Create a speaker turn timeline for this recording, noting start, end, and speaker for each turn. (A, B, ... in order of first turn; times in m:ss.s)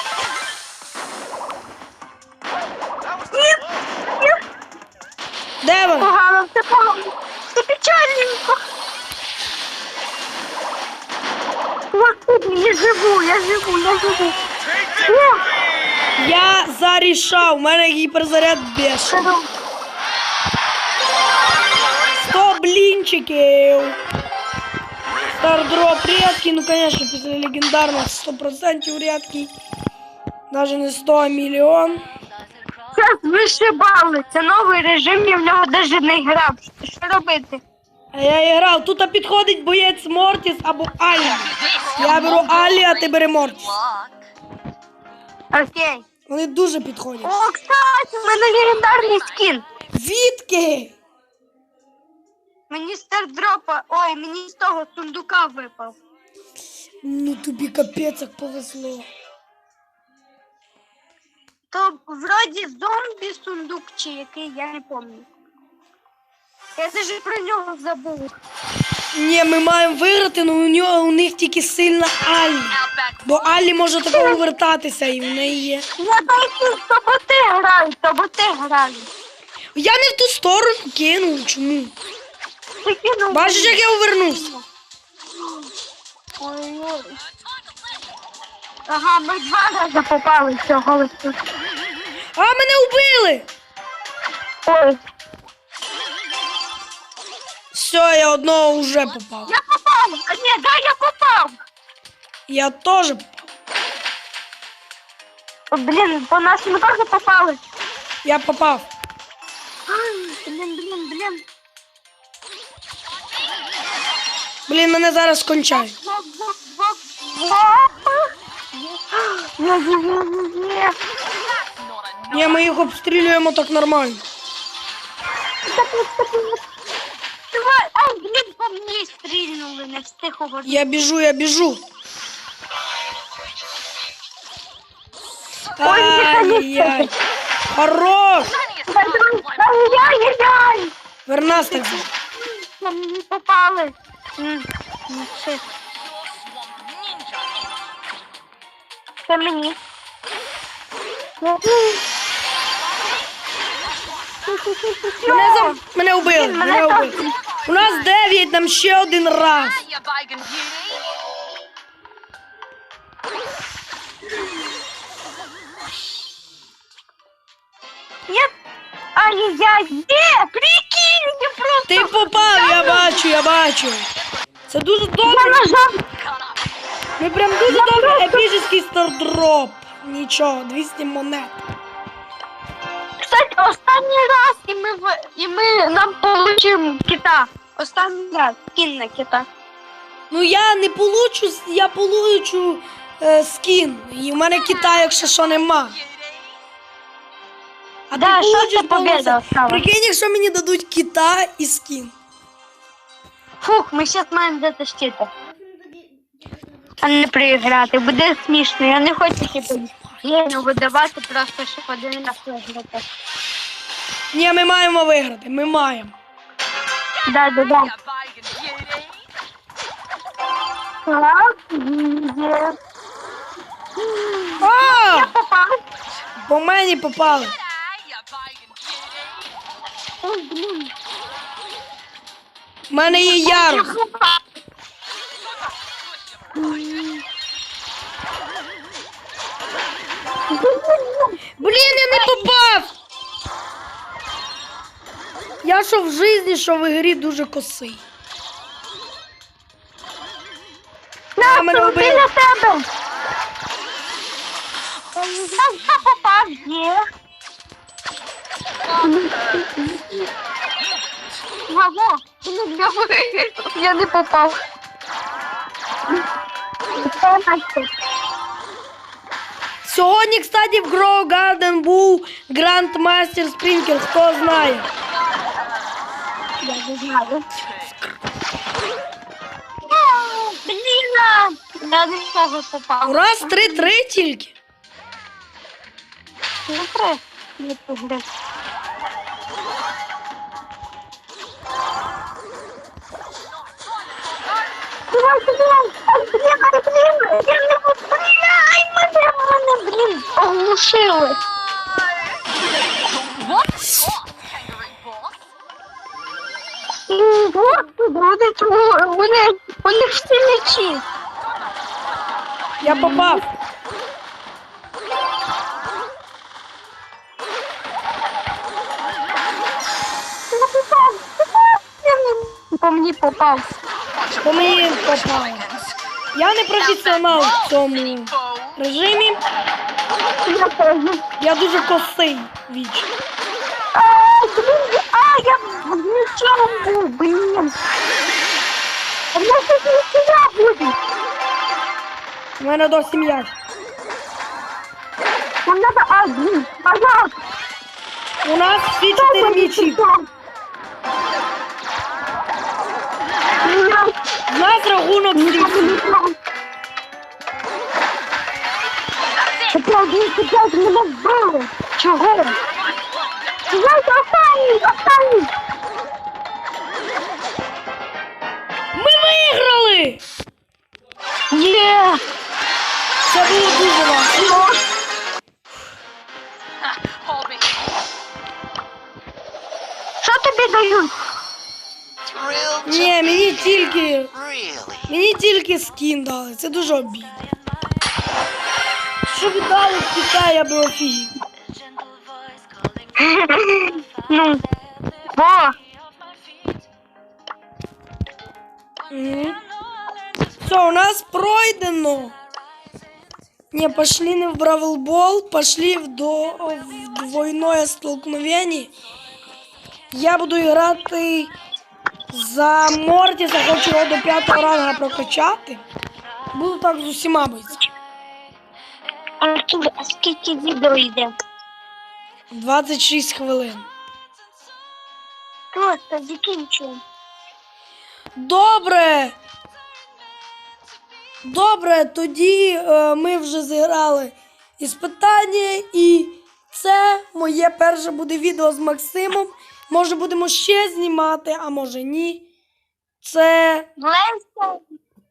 0:03.3-0:04.4 A
0:05.6-0:06.1 B
0:06.0-0:08.6 A
0:11.9-0:14.4 A
0:15.0-0:15.4 A
0:16.2-0:19.3 B
0:19.1-0:19.5 A
0:22.2-0:24.0 B
0:25.4-0:29.5 B
0:30.5-0:32.0 B
0:32.9-0:37.6 A
0:38.1-0:43.7 B
0:41.2-0:44.3 C
0:45.5-0:46.0 A
0:46.3-0:47.3 B
0:47.2-0:49.6 A
0:49.0-0:49.5 C
0:49.9-0:51.0 B
0:52.7-0:56.0 A
0:57.0-0:59.0 B
1:01.7-1:05.3 A
1:06.8-1:08.4 A
1:09.1-1:15.8 B
1:12.7-1:13.3 C
1:14.1-1:14.4 A
1:16.0-1:19.1 A
1:19.8-1:21.9 B
1:22.8-1:23.8 A
1:23.3-1:24.5 B
1:24.3-1:24.6 A
1:26.4-1:27.2 A
1:28.9-1:31.4 A
1:32.4-1:33.5 B
1:34.6-1:35.0 A
1:37.7-1:39.5 B
1:39.4-1:41.6 A
1:42.5-1:43.4 B
1:45.7-1:47.6 A
1:48.2-1:48.9 B
1:49.9-1:51.4 A
1:54.7-1:55.9 B
1:55.7-2:01.0 A
2:01.4-2:02.7 C
2:02.3-2:04.2 B
2:05.6-2:06.6 A
2:07.5-2:10.8 A
2:10.6-2:11.8 B
2:15.8-2:17.1 B
2:15.8-2:17.1 A
2:17.7-2:18.5 B
2:18.4-2:20.1 C
2:18.9-2:20.9 A
2:21.2-2:22.1 B
2:21.5-2:25.6 A
2:25.9-2:27.8 C
2:29.3-2:29.8 A
2:31.4-2:32.0 A
2:34.4-2:37.3 A
2:35.3-2:39.8 B
2:37.2-2:38.1 C
2:39.6-2:41.2 C
2:48.3-2:48.5 A
2:49.1-2:53.2 A
2:51.9-2:54.1 B
2:54.7-2:55.8 B
2:55.2-2:56.0 A
2:56.1-2:56.5 C
2:57.2-3:01.6 B
2:57.7-2:58.4 A
3:03.2-3:09.5 A
3:10.3-3:16.0 B
3:14.7-3:16.6 C
3:18.1-3:22.1 B
3:18.1-3:19.8 A
3:23.6-3:25.3 A
3:27.0-3:33.0 A
3:34.3-3:36.1 B
3:37.2-3:39.3 C
3:37.2-3:37.9 A
3:41.0-3:42.8 A
3:44.0-3:45.8 A
3:44.6-3:45.3 B
3:46.4-3:47.5 B
3:47.4-3:49.5 C
3:50.2-3:50.9 A
3:52.9-3:53.9 B
3:53.0-3:54.4 A
3:55.4-3:57.2 C
3:56.5-3:57.2 A
4:00.5-4:02.5 A
4:01.6-4:02.9 B
4:05.6-4:08.0 B
4:11.4-4:12.8 A
4:11.4-4:12.3 B
4:15.1-4:17.0 A
4:18.8-4:19.7 C
4:19.0-4:20.3 A
4:21.7-4:24.6 A
4:27.0-4:27.9 A
4:29.8-4:34.9 B
4:35.0-4:36.0 C
4:36.6-4:37.5 A
4:39.8-4:43.9 A
4:43.0-4:44.6 B
4:46.7-4:48.2 A
4:53.7-4:54.8 C
4:55.1-5:01.4 A
5:01.5-5:05.4 C
5:07.1-5:11.0 A
5:11.4-5:12.8 C
5:12.8-5:13.4 B
5:12.8-5:13.4 A
5:20.5-5:23.7 A
5:24.1-5:26.0 C
5:24.4-5:25.6 B
5:26.3-5:29.4 B
5:26.8-5:28.8 C
5:30.4-5:31.2 A
5:31.4-5:33.1 B
5:33.9-5:37.8 A
5:39.3-5:41.0 A
5:42.6-5:43.5 B
5:45.6-5:47.3 A
5:48.4-5:50.0 B
5:49.1-5:50.2 A
5:53.6-5:54.1 A
5:54.5-5:56.0 B
5:55.3-5:56.3 A
5:59.4-5:59.7 C
5:59.7-6:02.6 A
6:03.7-6:05.5 A
6:08.9-6:10.2 B
6:11.5-6:12.2 A
6:13.3-6:14.5 B
6:14.3-6:14.8 A
6:16.8-6:17.9 C
6:20.2-6:21.1 A
6:22.8-6:24.3 B
6:25.1-6:27.4 B
6:29.2-6:31.3 B
6:33.2-6:34.6 A
6:35.3-6:35.7 A
6:39.1-6:39.6 B
6:40.6-6:42.3 B
6:43.7-6:48.9 B
6:50.1-6:51.5 B
6:52.3-6:55.8 B
6:56.5-6:57.7 B
6:59.4-7:01.3 A
7:02.5-7:03.9 B
7:05.7-7:07.0 A
7:08.4-7:09.4 B
7:11.4-7:22.4 B
7:23.2-7:23.9 B
7:24.0-7:24.8 A